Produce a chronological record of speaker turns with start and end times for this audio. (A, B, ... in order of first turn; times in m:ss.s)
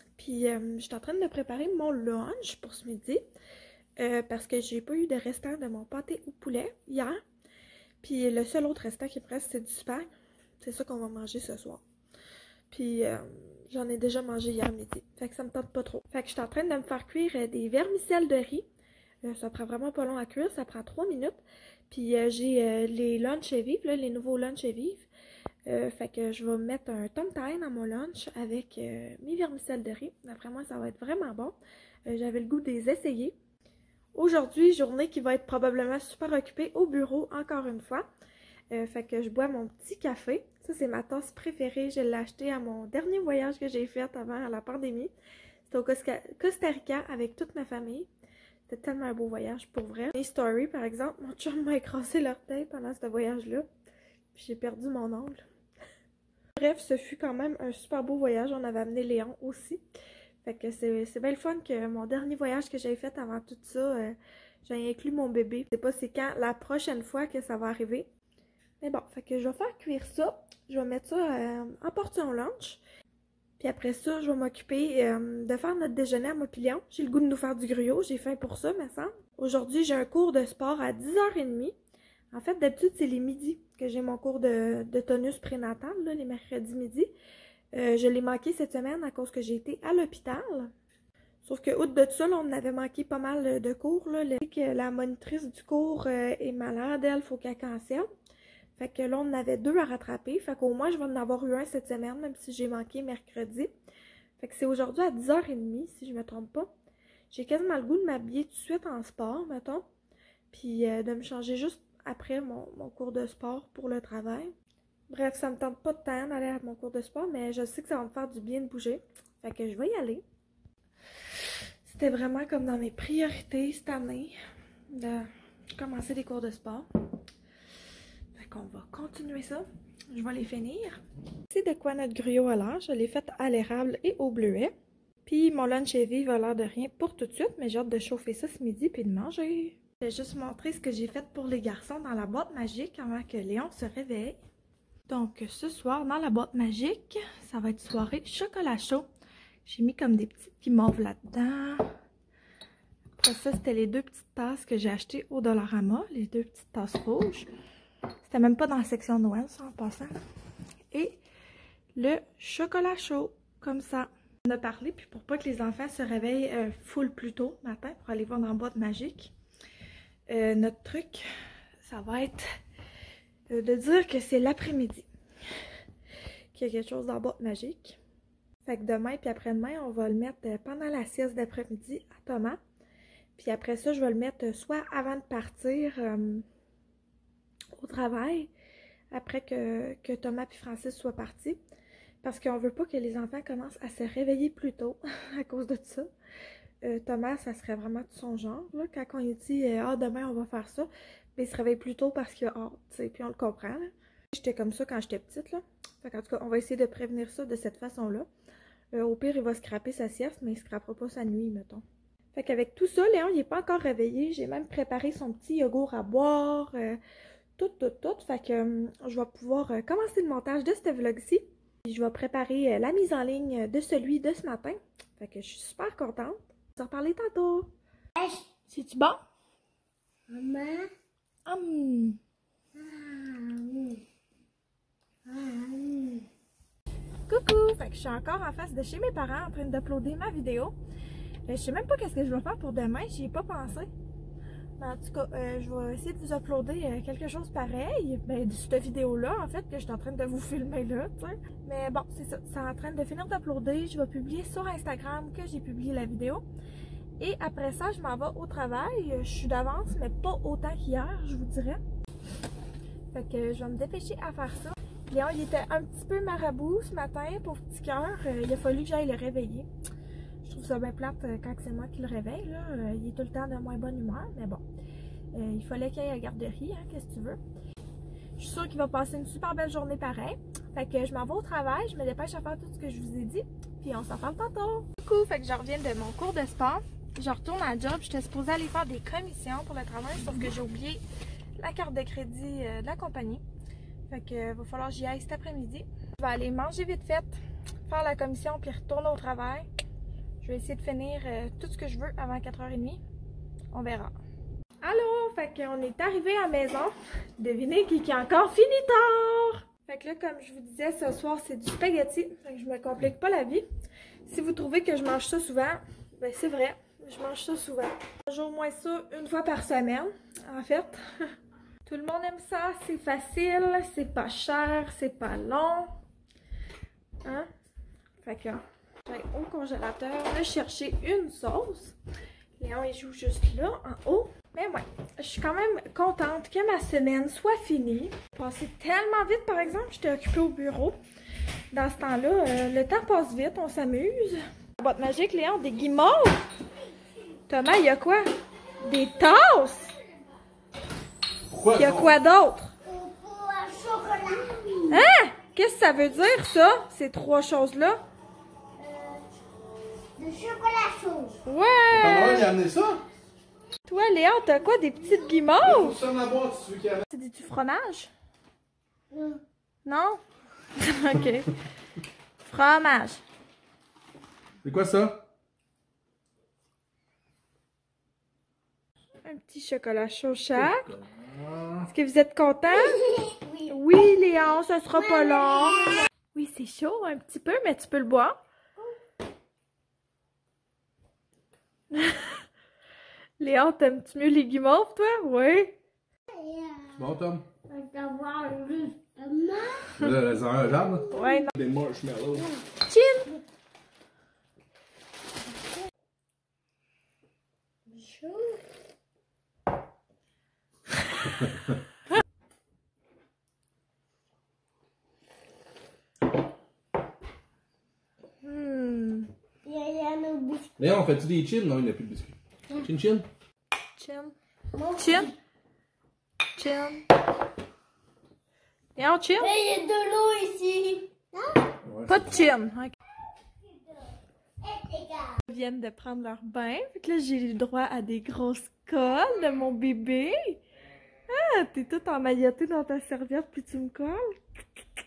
0:00.2-0:03.2 A
0:04.0-0:07.2 A
0:08.0-0:11.8 A
0:12.7-0:18.7 A
0:19.2-0:25.1 A
0:25.7-0:33.4 A
0:34.2-0:38.1 A
0:38.7-0:45.1 A
0:45.7-0:48.1 A
0:48.7-0:53.7 A
0:54.3-0:55.4 A
0:56.6-0:59.8 A
1:00.4-1:08.1 A
1:08.8-1:12.8 A
1:13.6-1:21.8 A
1:22.3-1:27.1 A
1:27.7-1:30.7 A
1:31.4-1:38.1 A
1:38.8-1:43.7 A
1:44.4-1:46.7 A
1:47.3-1:49.9 A
1:50.5-1:54.5 A
1:55.1-2:00.2 A
2:01.8-2:04.4 A
2:04.9-2:06.9 A
2:08.4-2:14.7 A
2:15.2-2:24.4 A
2:25.1-2:29.1 A
2:29.6-2:31.9 A
2:33.2-2:37.5 A
2:38.3-2:40.2 A
2:40.9-2:41.2 A
2:42.0-2:49.3 A
2:50.3-2:51.3 A
2:51.8-2:52.5 A
2:53.5-2:55.1 A
2:56.5-2:58.0 A
2:58.6-3:02.6 A
3:03.4-3:06.4 A
3:07.8-3:08.5 A
3:09.1-3:11.6 A
3:12.2-3:16.1 A
3:16.8-3:28.3 A
3:28.9-3:31.8 A
3:32.4-3:37.0 A
3:37.6-3:47.7 A
3:48.2-3:48.4 B
3:48.7-3:49.2 A
3:50.3-3:50.9 B
3:51.5-3:52.2 A
3:52.8-3:53.9 B
3:55.3-3:56.2 B
3:57.3-4:00.8 A
4:01.5-4:03.9 A
4:04.8-4:16.4 A
4:17.2-4:21.8 A
4:23.1-4:29.7 A
4:30.4-4:34.6 A
4:35.3-4:37.4 A
4:38.4-4:51.0 A
4:51.6-4:53.4 A
4:54.1-4:57.4 A
4:57.9-4:59.7 A
5:00.4-5:03.0 A
5:03.7-5:04.2 A
5:04.8-5:13.6 A
5:14.3-5:21.1 A
5:21.8-5:25.9 A
5:28.2-5:32.0 A
5:32.6-5:41.0 A
5:41.7-5:46.4 A
5:47.5-5:48.2 A
5:48.8-5:50.0 A
5:51.5-5:52.1 C
5:51.7-5:52.7 A
5:52.8-5:55.1 B
5:54.9-5:58.0 A
5:58.8-5:59.2 B
6:00.2-6:01.4 B
6:01.4-6:02.5 A
6:01.9-6:03.0 C
6:03.9-6:06.0 A
6:05.6-6:07.0 C
6:07.1-6:08.1 A
6:09.1-6:09.4 B
6:09.8-6:10.2 A
6:10.8-6:11.5 A
6:12.4-6:13.2 A
6:14.6-6:15.2 C
6:19.2-6:21.0 A
6:20.6-6:21.9 C
6:21.8-6:23.1 A
6:22.9-6:23.7 B
6:23.7-6:28.4 A
6:25.0-6:26.0 B
6:31.9-6:32.4 A
6:33.4-6:35.8 A
6:36.3-6:37.1 B
6:37.0-6:37.5 C
6:37.7-6:40.0 B
6:40.0-6:42.5 C
6:41.0-6:41.4 B
6:41.1-6:41.5 A
6:42.8-6:43.3 A
6:47.9-6:48.6 B
6:58.4-6:59.3 A
6:59.6-7:00.7 B
7:00.8-7:03.3 C
7:04.0-7:04.4 A
7:04.8-7:05.3 B
7:05.0-7:05.3 A
7:06.5-7:07.1 A
7:09.0-7:09.5 A
7:09.4-7:11.8 B
7:11.8-7:12.1 C
7:12.1-7:13.0 A
7:14.6-7:15.4 B
7:15.5-7:20.6 A
7:21.3-7:24.8 A